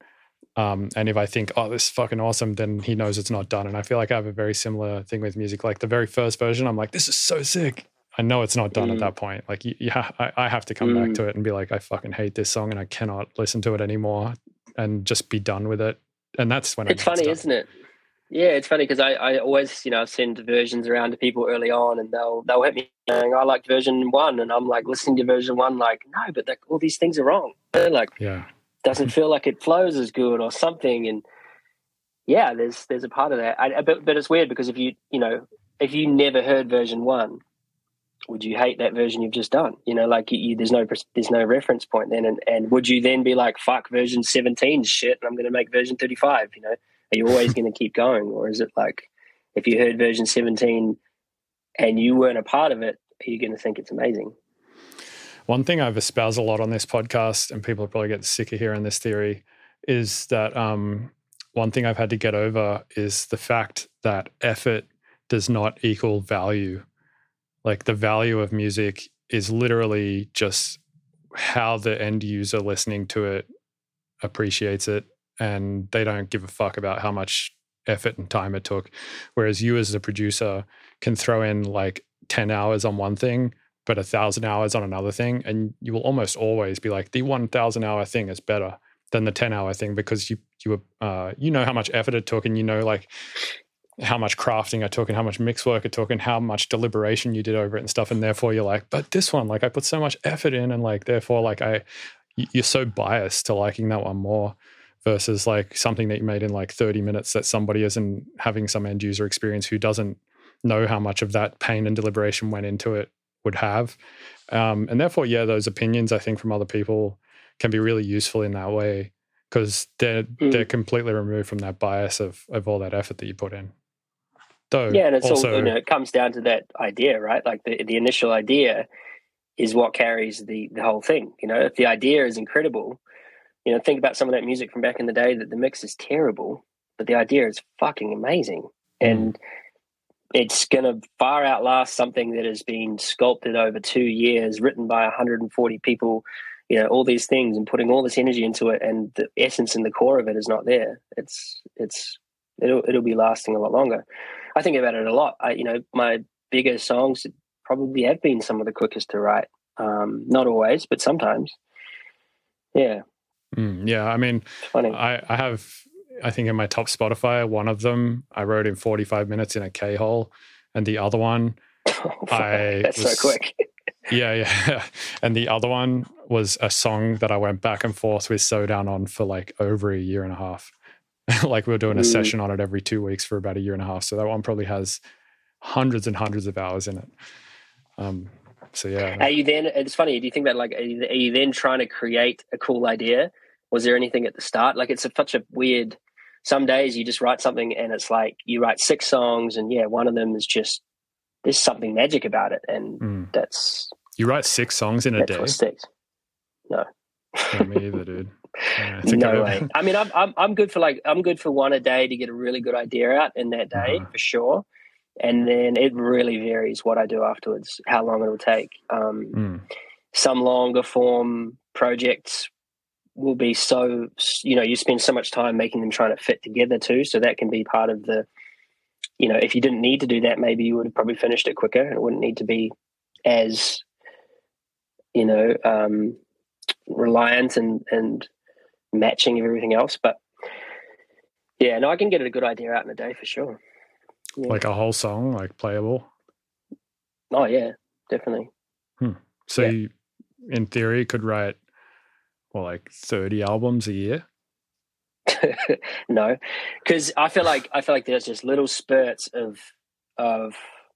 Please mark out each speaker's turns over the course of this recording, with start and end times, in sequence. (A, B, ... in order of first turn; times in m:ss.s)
0:00.6-0:17.4 A
0:08.8-0:09.1 B
0:10.8-0:11.2 B
0:16.9-0:17.7 B
0:18.3-0:28.1 B
0:28.2-0:28.5 A
0:28.8-0:31.2 B
0:32.3-0:37.4 B
0:38.3-0:51.0 B
0:51.8-0:54.3 B
0:55.5-1:06.8 A
1:07.6-1:10.8 A
1:11.3-1:13.5 A
1:14.2-1:33.1 A
1:34.0-1:41.8 A
1:42.4-1:54.0 A
1:54.5-2:03.7 A
2:04.7-2:05.7 A
2:04.9-2:08.9 B
2:09.6-2:13.0 B
2:13.6-2:19.4 B
2:19.0-2:19.3 A
2:20.3-2:34.0 B
2:34.6-2:41.6 B
2:42.7-2:43.0 B
2:43.5-2:51.6 A
2:44.6-2:45.0 B
2:51.9-2:53.6 B
2:52.3-2:53.4 A
2:54.1-3:00.7 A
3:01.3-3:05.0 A
3:01.9-3:02.3 B
3:05.6-3:07.1 A
3:08.0-3:09.3 A
3:09.2-3:20.8 B
3:21.4-3:23.9 B
3:23.0-3:23.3 A
3:24.2-3:25.6 A
3:25.2-3:25.9 B
3:26.7-3:27.7 B
3:27.5-3:29.7 A
3:28.6-3:34.6 B
3:33.7-3:34.0 A
3:35.2-3:39.4 B
3:39.3-3:39.6 A
3:40.1-3:42.5 B
3:43.2-3:48.2 B
3:49.2-3:52.7 B
3:53.2-3:53.8 B
3:55.1-3:56.2 B
3:56.9-3:58.3 B
3:58.9-4:00.2 B
4:01.6-4:03.6 B
4:04.5-4:06.1 A
4:07.3-4:08.5 B
4:09.0-4:09.9 A
4:10.4-4:11.6 A
4:12.5-4:14.2 A
4:15.3-4:19.6 B
4:20.2-4:20.6 B